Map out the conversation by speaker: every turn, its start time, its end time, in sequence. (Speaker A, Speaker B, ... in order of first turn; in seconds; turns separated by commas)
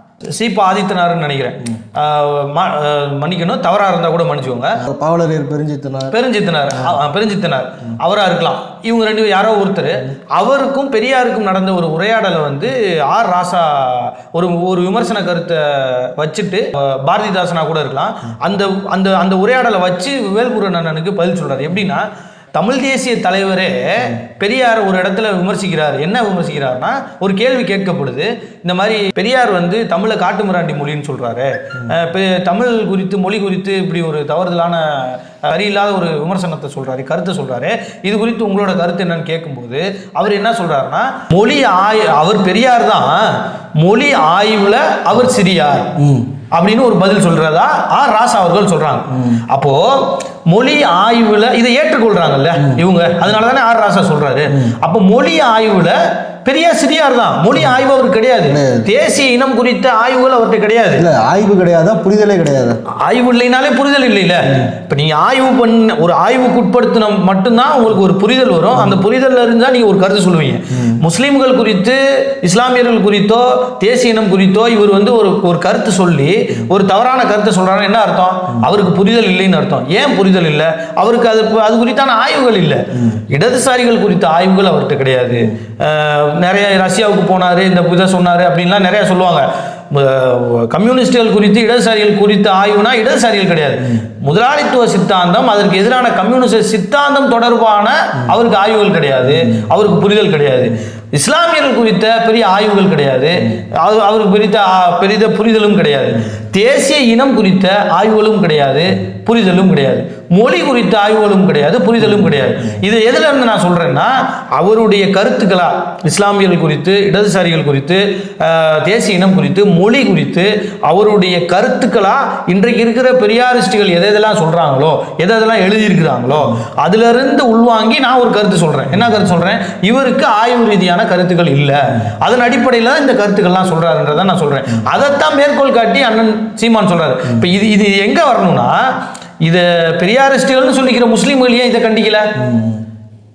Speaker A: 0.3-4.8, Speaker B: 4.8-6.1, Speaker A: 6.1-43.2, Speaker A: 43.8-45.9, Speaker B: 46.0-46.3, Speaker A: 46.5-61.0, Speaker B: 58.5-58.9, Speaker B: 61.0-62.8, Speaker A: 63.0-138.9, Speaker B: 68.7-69.0, Speaker B: 112.0-112.3, Speaker B: 128.9-129.2, Speaker A: 139.4-142.3, Speaker B: 142.4-142.8